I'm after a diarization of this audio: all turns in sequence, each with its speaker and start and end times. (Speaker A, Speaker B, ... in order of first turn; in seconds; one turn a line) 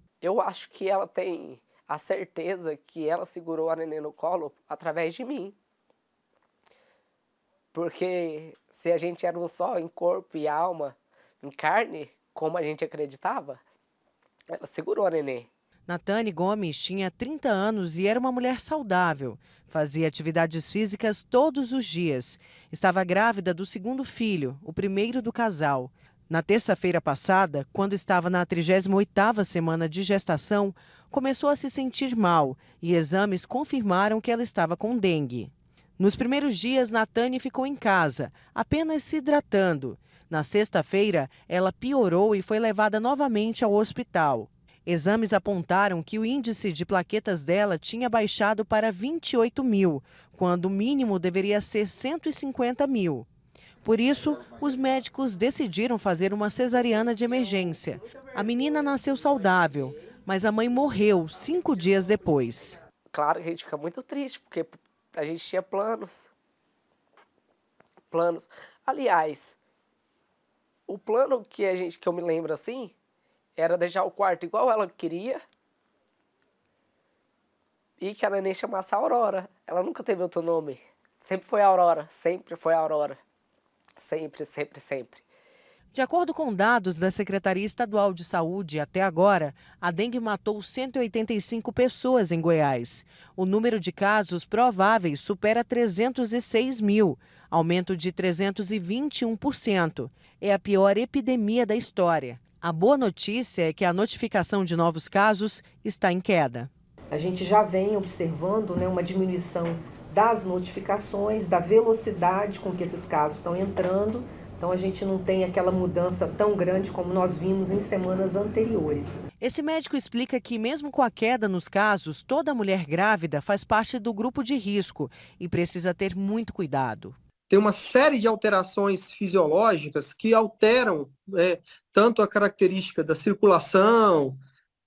Speaker A: 0.2-5.5
Speaker A: 7.7-13.6
Speaker A: 14.5-15.5
Speaker B: 15.9-53.3
Speaker B: 53.8-62.8
Speaker A: 57.6-59.1
Speaker A: 63.1-66.3
Speaker A: 68.1-69.5
Speaker A: 70.9-72.9
Speaker A: 73.6-75.4
Speaker A: 78.0-83.2
Speaker A: 84.0-85.2
Speaker B: 85.9-106.7
Speaker C: 107.1-119.2
Speaker B: 119.4-127.2
Speaker D: 127.5-134.4